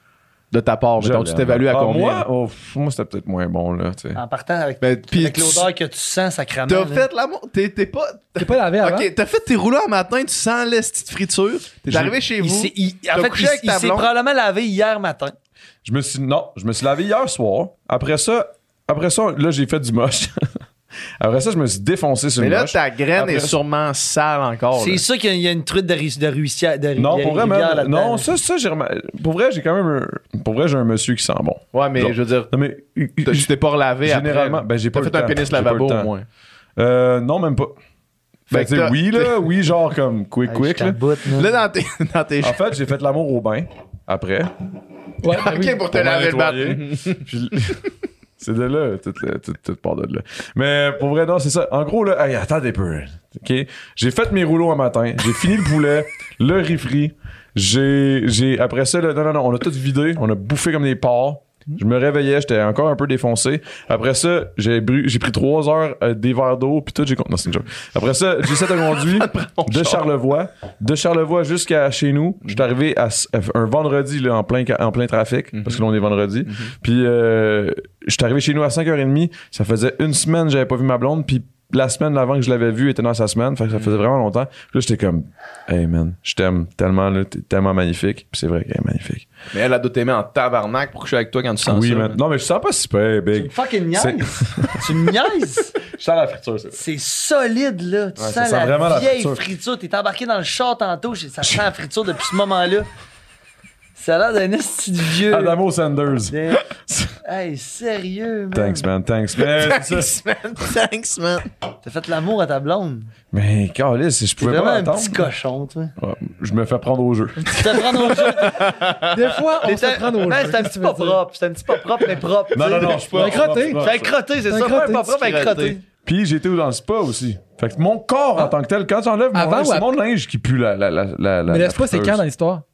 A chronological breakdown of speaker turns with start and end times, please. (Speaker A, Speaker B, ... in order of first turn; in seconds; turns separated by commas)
Speaker A: 0.5-2.2, Speaker B: 1.0-4.2, Speaker C: 4.1-7.0, Speaker A: 4.8-5.7, Speaker A: 6.7-14.1, Speaker D: 8.4-9.1, Speaker B: 11.9-12.1, Speaker C: 12.4-15.3, Speaker B: 15.8-20.6, Speaker B: 21.2-23.6, Speaker A: 22.4-25.0, Speaker C: 24.7-28.3, Speaker B: 27.0-33.5, Speaker A: 31.7-32.5, Speaker A: 33.2-36.2, Speaker B: 34.0-36.1, Speaker B: 36.8-37.7, Speaker B: 38.5-41.0, Speaker A: 38.5-39.5, Speaker C: 40.5-41.6, Speaker A: 41.3-42.6, Speaker B: 42.4-44.5, Speaker D: 45.2-45.9, Speaker A: 45.3-47.2, Speaker B: 45.9-47.8, Speaker B: 48.4-89.3, Speaker A: 68.5-70.0, Speaker A: 75.5-75.8, Speaker A: 76.5-76.7, Speaker A: 83.7-84.0, Speaker A: 89.5-92.2, Speaker B: 91.6-94.9, Speaker C: 93.3-95.8, Speaker B: 95.9-96.8, Speaker C: 96.7-102.9, Speaker B: 98.2-99.4, Speaker C: 104.0-105.6, Speaker B: 105.2-107.1, Speaker C: 106.3-106.7, Speaker C: 107.2-108.9, Speaker B: 108.5-110.1, Speaker A: 109.3-111.5, Speaker C: 111.8-113.1, Speaker B: 113.3-115.3, Speaker C: 114.4-115.9, Speaker B: 116.0-117.6, Speaker D: 117.4-121.2, Speaker C: 117.5-118.7, Speaker A: 118.3-119.2, Speaker C: 119.6-125.8, Speaker B: 122.5-124.1, Speaker A: 122.8-124.0, Speaker D: 123.1-123.8, Speaker D: 124.5-125.1, Speaker A: 125.1-125.8, Speaker B: 126.0-132.2, Speaker D: 129.3-129.9, Speaker D: 131.5-132.6